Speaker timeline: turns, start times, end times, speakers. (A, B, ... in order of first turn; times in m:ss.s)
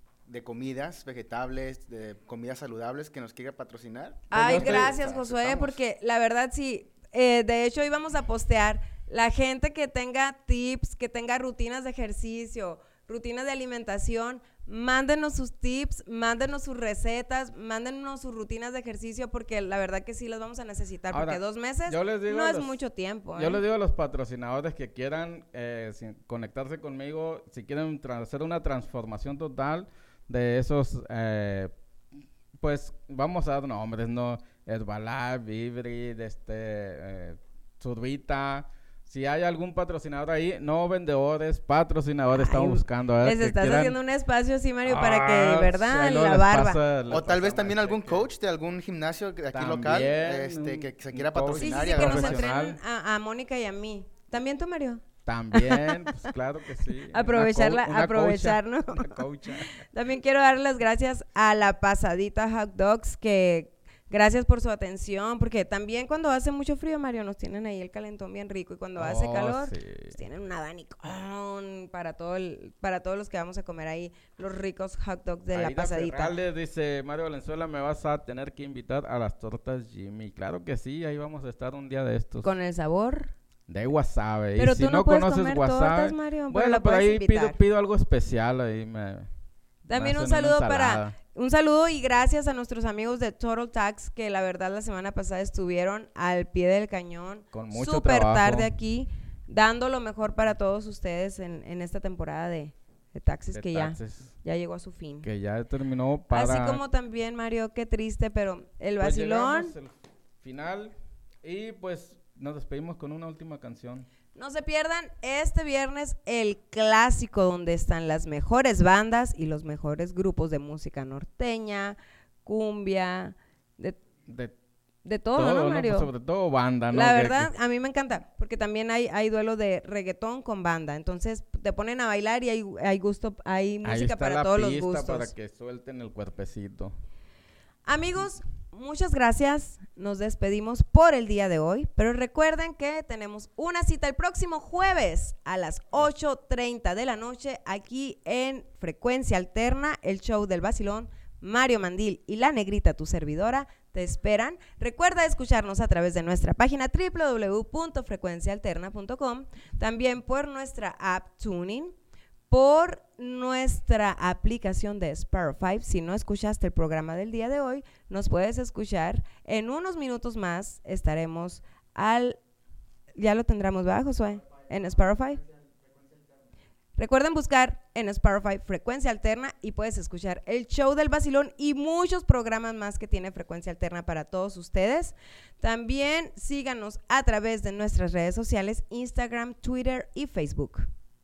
0:00.3-0:05.0 A
0:04.3-0:05.8 B
0:04.3-0:23.6 C
0:21.1-0:22.8 B
0:23.4-0:31.7 B
0:32.6-0:44.0 B
0:42.3-0:46.8 C
0:44.8-0:48.3 B
0:47.1-0:52.5 A
0:49.5-0:52.8 B
0:51.6-0:55.0 C
0:55.3-0:59.7 B
0:55.5-0:56.2 C
0:57.1-0:59.2 C
0:59.8-1:16.4 C
1:09.0-1:10.2 B
1:15.5-1:22.5 B
1:22.4-1:23.3 C
1:23.7-1:29.3 B
1:24.6-1:27.6 C
1:29.9-1:31.2 B
1:29.9-1:45.3 C
1:37.5-1:38.7 B
1:43.5-1:44.4 B
1:45.2-1:46.8 B
1:46.3-1:49.7 C
1:49.0-1:54.1 B
1:54.4-2:04.0 C
2:04.3-2:04.6 B
2:05.0-2:06.1 C
2:05.4-2:07.5 B
2:06.9-2:15.3 C
2:13.8-2:17.0 B
2:17.9-2:41.9 C
2:42.5-2:52.4 C
2:53.2-2:55.4 C
2:57.0-3:10.9 C